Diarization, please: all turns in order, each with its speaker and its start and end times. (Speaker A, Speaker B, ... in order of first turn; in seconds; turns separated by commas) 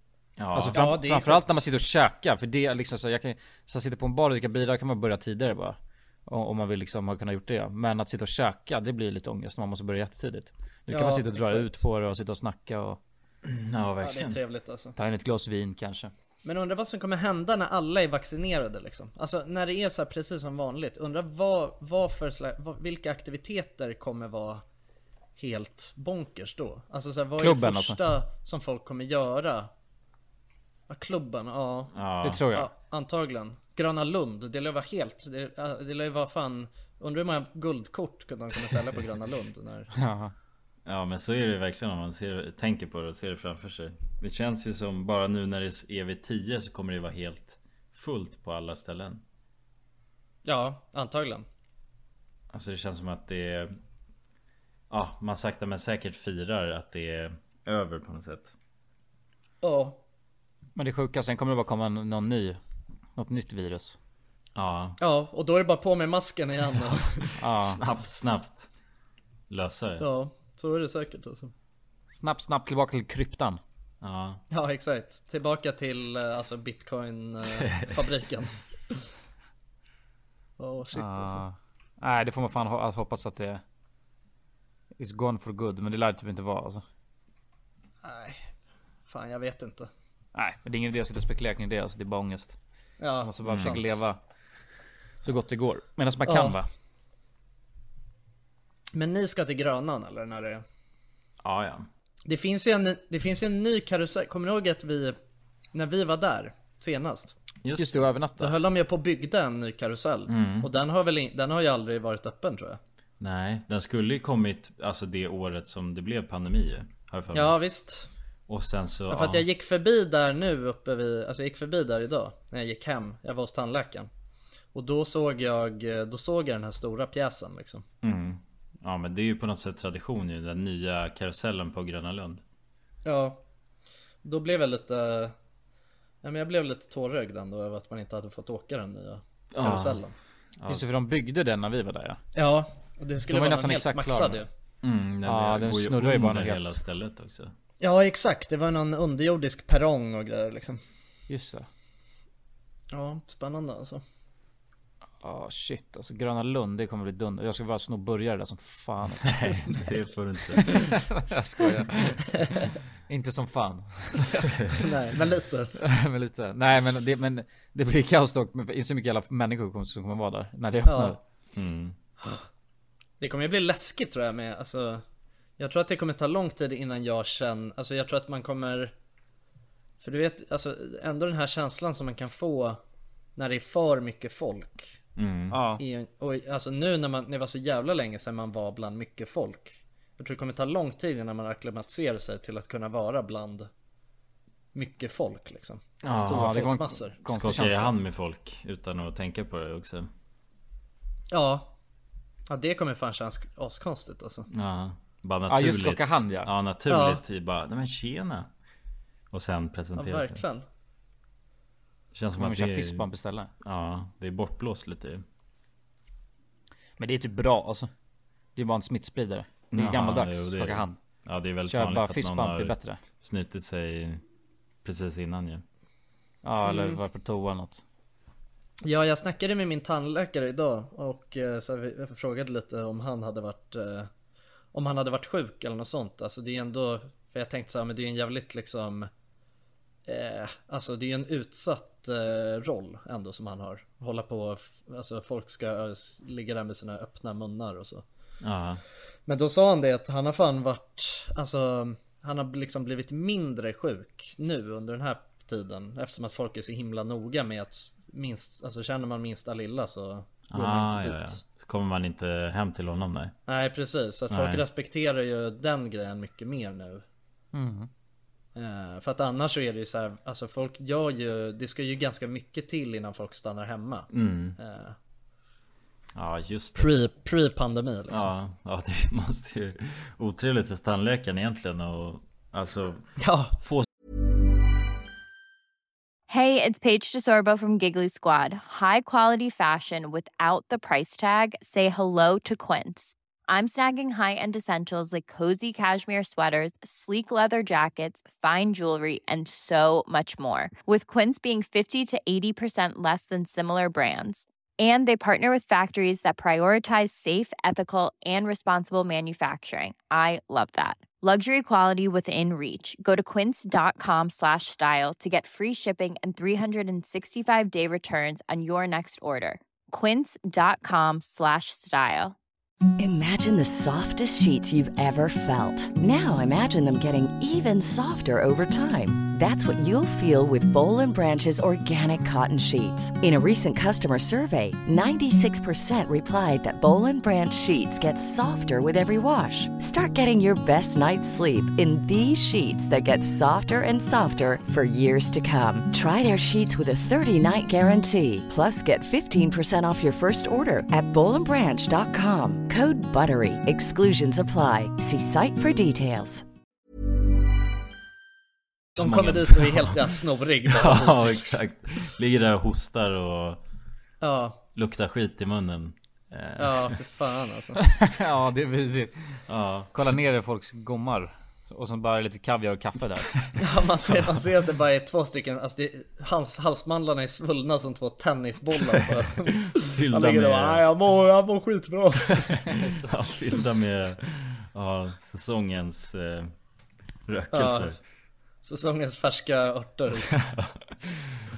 Speaker A: 0.4-0.8, Speaker B: 0.5-13.0, Speaker C: 0.7-1.5, Speaker C: 10.9-11.8, Speaker A: 13.4-14.4, Speaker C: 14.0-14.9, Speaker B: 15.0-16.1, Speaker C: 16.4-24.6, Speaker C: 25.4-29.7, Speaker B: 27.4-28.0, Speaker C: 30.9-31.9, Speaker A: 31.9-32.5, Speaker B: 32.2-32.7, Speaker C: 32.5-39.9, Speaker B: 39.9-40.3, Speaker A: 40.9-49.2, Speaker C: 50.5-51.5, Speaker A: 52.5-53.7, Speaker A: 54.9-58.5, Speaker C: 59.6-60.0, Speaker B: 60.8-62.6, Speaker B: 63.2-64.0, Speaker A: 64.5-65.0, Speaker C: 65.0-67.3, Speaker B: 67.4-67.8, Speaker A: 67.6-68.7, Speaker A: 69.5-70.0, Speaker C: 70.0-71.5, Speaker B: 72.1-73.6, Speaker A: 74.0-74.4, Speaker C: 74.5-79.0, Speaker A: 77.5-78.1, Speaker C: 80.6-81.4, Speaker B: 81.0-83.6, Speaker B: 85.0-86.8, Speaker C: 88.0-88.5, Speaker C: 89.1-89.9, Speaker B: 90.3-92.6, Speaker C: 93.0-93.9, Speaker B: 93.2-94.2, Speaker B: 95.2-96.7, Speaker C: 96.3-96.6, Speaker C: 98.9-100.6, Speaker A: 101.4-101.9, Speaker C: 102.3-105.2, Speaker C: 105.7-107.3, Speaker A: 107.6-108.0, Speaker B: 107.8-108.5, Speaker C: 108.4-112.8, Speaker A: 110.3-110.7, Speaker A: 113.2-117.5, Speaker C: 117.3-118.1, Speaker A: 118.5-119.4, Speaker C: 119.1-124.1, Speaker C: 124.7-127.8, Speaker A: 128.0-132.4, Speaker C: 133.1-133.4, Speaker C: 134.2-135.3, Speaker C: 136.2-140.1, Speaker A: 139.5-140.0, Speaker B: 140.7-142.2, Speaker C: 142.3-144.5, Speaker B: 143.3-144.4, Speaker A: 144.8-147.5, Speaker B: 145.2-146.8, Speaker C: 147.8-150.8, Speaker B: 151.3-151.7, Speaker C: 152.9-154.0, Speaker B: 155.2-159.8, Speaker A: 159.2-160.8, Speaker B: 160.6-164.5, Speaker C: 164.8-165.8, Speaker B: 165.8-171.2, Speaker C: 170.9-171.2, Speaker A: 171.6-171.9, Speaker C: 173.2-175.0, Speaker C: 175.6-178.9, Speaker C: 180.0-182.8, Speaker C: 183.4-185.0, Speaker A: 185.2-185.6, Speaker B: 185.5-185.8, Speaker C: 185.8-193.7, Speaker C: 194.7-197.2, Speaker A: 196.0-196.5, Speaker B: 196.2-197.9, Speaker A: 197.2-200.1, Speaker C: 201.3-201.7, Speaker C: 202.5-204.5, Speaker A: 204.5-208.5, Speaker B: 205.5-206.5, Speaker C: 206.9-207.2, Speaker A: 209.3-210.4, Speaker C: 210.0-210.7, Speaker A: 212.1-213.1, Speaker B: 212.4-213.5, Speaker A: 213.6-215.2, Speaker B: 217.0-217.9, Speaker B: 218.6-221.0, Speaker A: 219.7-224.2, Speaker B: 221.7-223.0, Speaker A: 224.8-225.6, Speaker B: 226.4-227.8, Speaker C: 226.6-227.0, Speaker C: 228.8-234.1, Speaker C: 234.7-239.1, Speaker C: 240.1-248.1, Speaker A: 248.4-248.8, Speaker C: 249.3-261.4, Speaker A: 260.5-263.3, Speaker C: 263.5-267.0, Speaker A: 264.3-264.6, Speaker B: 267.5-267.9, Speaker C: 268.6-275.0, Speaker A: 274.1-274.6, Speaker A: 276.2-276.9, Speaker C: 276.8-278.3, Speaker A: 278.1-283.0, Speaker C: 283.2-283.6, Speaker D: 286.3-322.4, Speaker E: 323.0-356.4, Speaker A: 359.0-360.0, Speaker C: 359.0-361.6, Speaker A: 360.7-363.6, Speaker C: 364.2-364.6, Speaker A: 364.8-367.0, Speaker C: 366.6-367.8, Speaker B: 367.9-369.1, Speaker A: 369.5-369.9, Speaker B: 369.9-373.3, Speaker C: 373.6-382.9, Speaker A: 379.8-380.9, Speaker A: 382.3-386.5, Speaker A: 387.3-388.0, Speaker C: 387.5-388.0, Speaker C: 388.6-390.3, Speaker A: 390.3-391.1